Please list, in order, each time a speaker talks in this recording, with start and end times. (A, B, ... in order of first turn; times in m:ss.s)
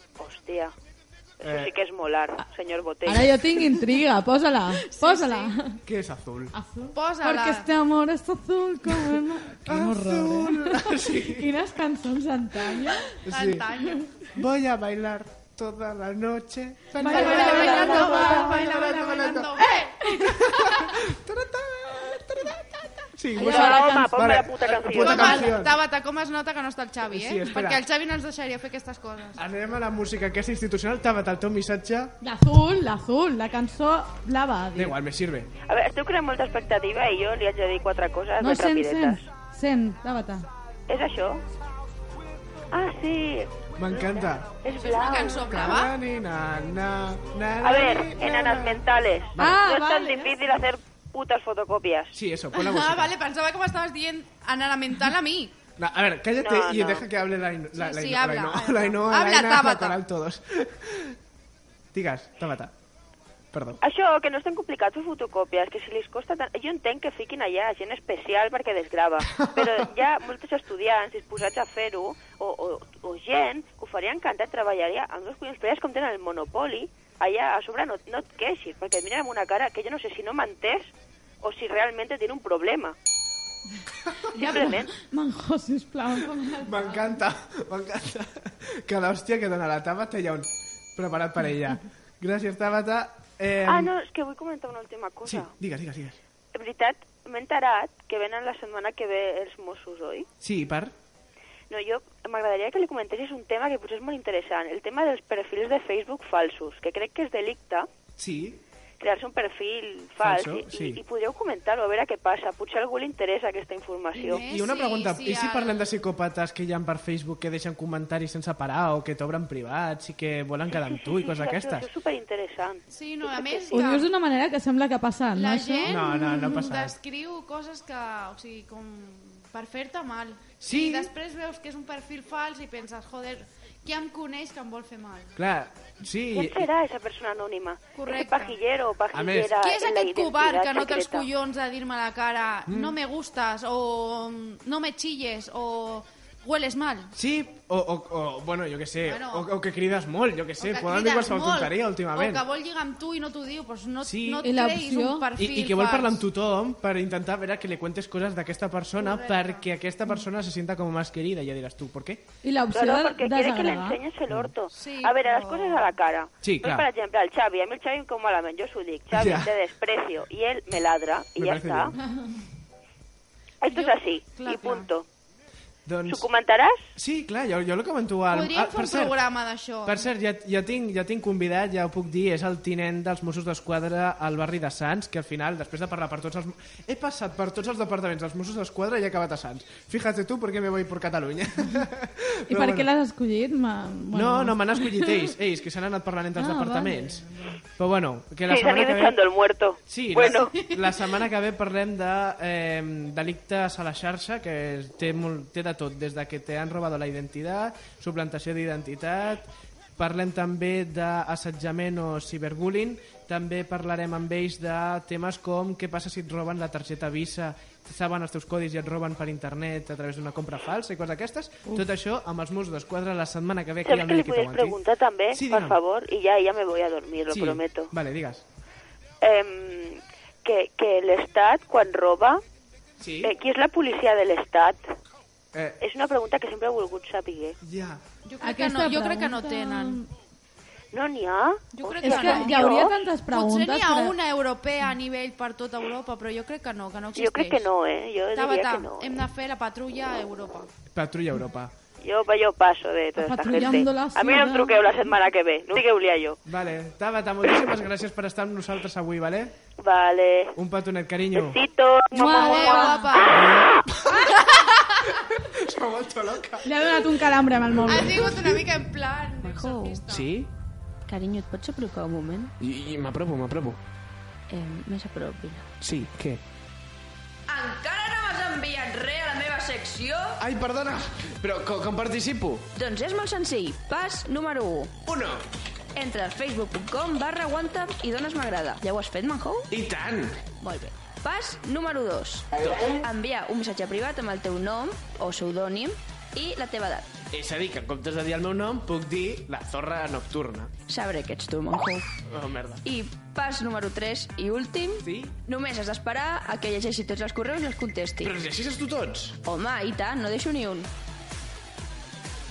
0:00.2-0:00.7 A
0:01.4-0:03.3 A
0:01.4-0:01.7 B
0:03.1-0:05.8 C
0:04.8-0:05.6 D
0:05.9-0:06.5 B
0:06.5-0:13.1 C
0:06.9-0:07.7 D
0:09.6-0:11.5 B
0:13.2-0:13.7 B
0:13.3-0:14.3 D
0:13.8-0:14.1 C
0:14.4-0:19.6 B
0:17.0-0:20.7 C
0:17.0-0:20.1 D
0:20.2-0:25.7 B
0:23.4-0:24.1 C
0:23.4-0:25.6 A
0:24.9-0:29.4 D
0:27.1-0:27.8 B
0:29.4-0:32.1 B
0:32.2-0:35.0 C
0:34.8-0:35.5 B
0:35.6-0:39.2 A
0:38.4-0:40.5 C
0:40.9-0:41.4 A
0:42.7-0:45.6 A
0:43.8-0:44.6 B
0:44.7-0:46.0 D
0:45.4-0:48.8 B
0:47.6-0:52.2 A
0:49.4-0:49.6 B
0:49.4-0:50.4 C
0:52.1-0:53.1 B
0:52.5-0:55.6 D
0:55.8-1:01.2 B
0:56.4-0:57.1 A
0:57.8-1:00.0 D
1:01.9-1:02.7 B
1:03.5-1:03.8 B
1:03.8-1:23.0 A
1:09.3-1:09.9 B
1:24.3-1:26.8 C
1:24.4-1:24.9 A
1:26.6-1:33.9 B
1:33.6-1:35.5 A
1:35.2-1:36.2 B
1:36.5-1:40.3 A
1:40.4-1:40.9 B
1:41.7-1:47.9 A
1:48.2-1:48.6 B
1:49.0-1:54.4 A
1:50.2-1:51.0 B
1:54.1-1:55.9 D
1:54.3-2:01.9 B
2:00.7-2:03.8 A
2:02.9-2:04.1 D
2:03.7-2:05.9 C
2:05.4-2:15.4 D
2:05.9-2:06.9 B
2:10.6-2:11.1 B
2:15.4-2:16.7 B
2:16.3-2:21.3 A
2:18.0-2:18.6 D
2:19.1-2:19.6 B
2:19.5-2:27.1 D
2:22.7-2:23.0 B
2:27.2-2:32.4 B
2:29.0-2:29.5 D
2:30.6-2:36.2 D
2:34.0-2:34.5 B
2:34.4-2:35.3 C
2:35.4-2:42.2 B
2:39.0-2:39.7 D
2:42.4-2:44.0 C
2:42.7-2:52.0 A
2:44.7-2:45.9 D
2:46.4-2:46.9 B
2:49.1-2:49.5 B
2:51.4-2:52.0 B
2:53.6-2:55.0 A
2:53.6-2:54.9 D
2:55.9-2:56.3 B
2:56.1-2:56.9 A
2:57.0-2:59.2 B
2:58.3-3:00.1 D
2:59.9-3:12.9 B
3:12.5-3:15.2 C
3:14.1-3:17.2 B
3:16.4-3:17.6 C
3:17.8-3:19.2 B
3:18.5-3:20.6 A
3:19.9-3:29.4 B
3:30.0-3:44.8 B
3:43.8-3:47.9 A
3:45.3-3:45.8 B
3:47.3-3:48.4 B
3:49.2-3:52.4 A
3:53.0-3:53.4 B
3:53.2-3:54.9 A
3:55.8-3:57.6 A
3:57.6-3:58.0 B
3:58.2-4:00.0 D
3:58.4-4:00.1 C
4:00.9-4:03.0 A
4:01.7-4:07.7 D
4:02.0-4:04.2 C
4:07.2-4:09.2 A
4:08.3-4:10.7 D
4:10.9-4:11.7 B
4:12.0-4:16.4 A
4:13.2-4:14.9 C
4:16.5-4:19.5 B
4:19.8-4:20.6 A
4:20.6-4:21.6 B
4:21.3-4:23.9 A
4:22.1-4:23.2 C
4:22.2-4:23.5 D
4:23.3-4:24.7 B
4:25.3-4:27.0 B
4:26.6-4:28.6 C
4:27.9-4:30.3 D
4:29.4-4:30.0 E
4:30.1-4:30.5 B
4:31.1-4:32.5 E
4:32.6-4:33.8 B
4:34.5-4:35.7 E
4:35.8-4:36.4 B
4:37.5-4:40.4 E
4:40.4-4:42.7 B
4:42.8-4:44.9 E
4:45.1-4:45.4 B
4:46.0-4:49.7 E
4:49.7-4:50.4 B
4:50.6-4:57.1 E
4:52.6-4:52.9 B
4:57.3-5:00.7 B
5:00.9-5:02.1 E
5:02.3-5:02.8 B
5:02.8-5:08.4 E
5:05.0-5:05.4 B
5:08.2-5:09.4 B
5:09.4-5:10.9 E